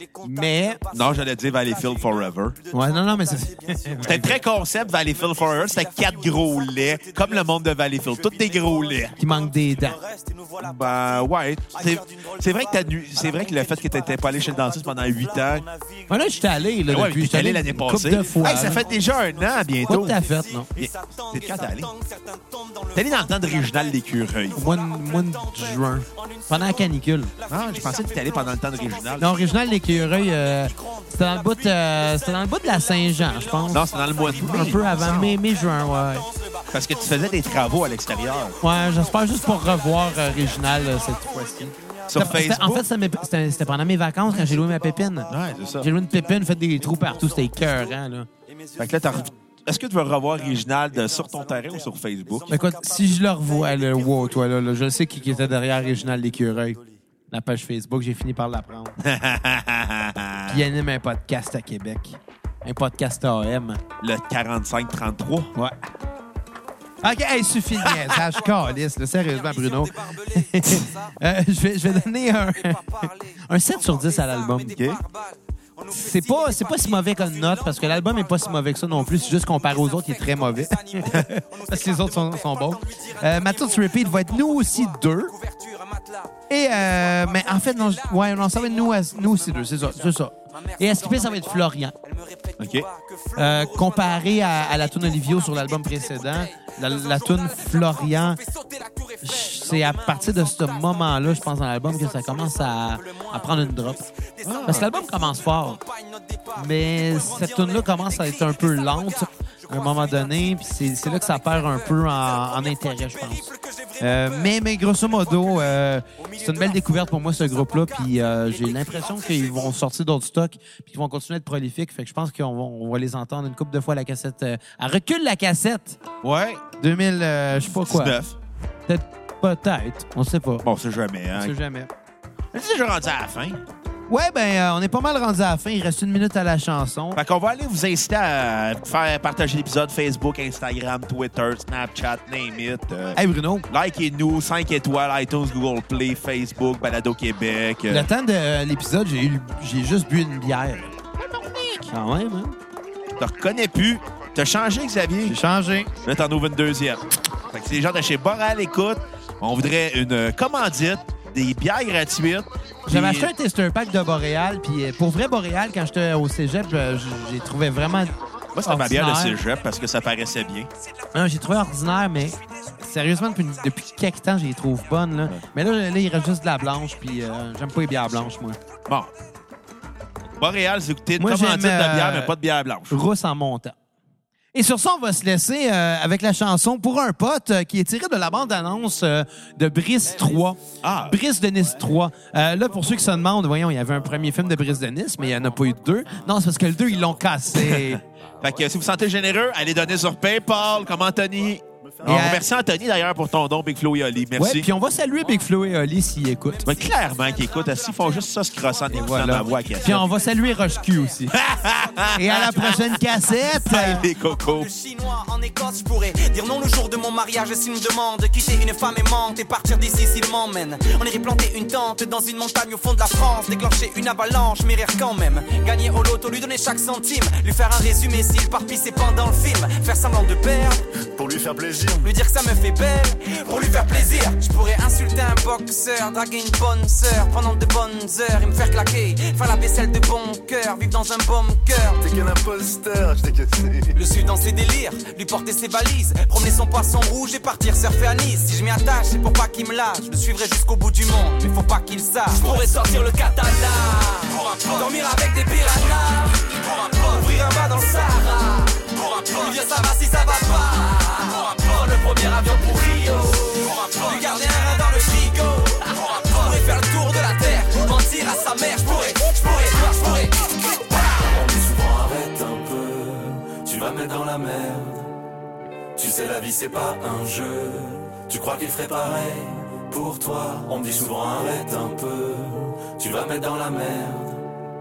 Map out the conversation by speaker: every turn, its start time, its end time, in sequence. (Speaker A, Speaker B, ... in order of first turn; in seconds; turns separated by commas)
Speaker A: 0.2-0.8, Speaker B: 0.9-2.6, Speaker A: 2.7-4.4, Speaker B: 4.0-9.2, Speaker A: 9.2-10.0, Speaker B: 10.6-15.7, Speaker A: 16.1-18.8, Speaker B: 16.9-20.2, Speaker A: 19.9-20.7, Speaker B: 20.7-21.9, Speaker B: 22.9-24.6, Speaker A: 24.5-27.3, Speaker B: 27.5-29.3, Speaker A: 29.2-36.3, Speaker B: 33.7-35.4, Speaker B: 36.7-38.6, Speaker A: 38.6-48.3, Speaker B: 42.1-42.9, Speaker B: 45.3-45.9, Speaker B: 48.8-52.6, Speaker A: 52.5-56.8, Speaker A: 57.3-59.0, Speaker B: 59.0-60.6, Speaker A: 60.5-63.8, Speaker B: 64.0-65.5, Speaker A: 67.0-74.8, Speaker B: 74.7-75.0, Speaker A: 75.9-85.3, Speaker C: 85.7-86.3, Speaker A: 86.5-91.9, Speaker B: 92.6-92.9, Speaker A: 93.3-98.4, Speaker A: 99.2-104.1, Speaker B: 104.4-104.9, Speaker A: 104.6-105.8, Speaker A: 106.5-126.0, Speaker B: 126.2-126.6, Speaker A: 126.8-128.2, Speaker B: 127.5-128.4, Speaker A: 128.9-130.6, Speaker B: 130.6-131.5, Speaker A: 131.3-131.9, Speaker B: 132.5-133.6, Speaker A: 134.1-137.2, Speaker B: 137.1-143.2, Speaker A: 143.2-143.7, Speaker B: 143.7-148.1, Speaker A: 147.9-150.9, Speaker B: 151.2-151.9, Speaker A: 151.9-152.6, Speaker B: 153.2-155.4, Speaker A: 155.2-155.9, Speaker B: 156.0-163.3, Speaker A: 162.9-168.1, Speaker B: 168.5-170.7, Speaker A: 168.6-169.4, Speaker A: 171.1-178.6, Speaker B: 180.3-183.0, Speaker A: 181.2-182.3, Speaker A: 182.9-183.8, Speaker A: 184.5-198.0, Speaker B: 190.8-191.2, Speaker B: 197.6-204.7, Speaker D: 201.8-202.1, Speaker A: 202.0-202.4, Speaker A: 204.4-206.7, Speaker B: 206.6-210.1, Speaker A: 208.9-211.3, Speaker B: 211.3-214.7, Speaker A: 212.2-214.1, Speaker C: 214.3-230.8, Speaker D: 231.1-232.1, Speaker C: 232.0-242.0, Speaker D: 242.0-244.0, Speaker C: 243.9-270.5, Speaker E: 271.1-275.1, Speaker E: 275.9-284.4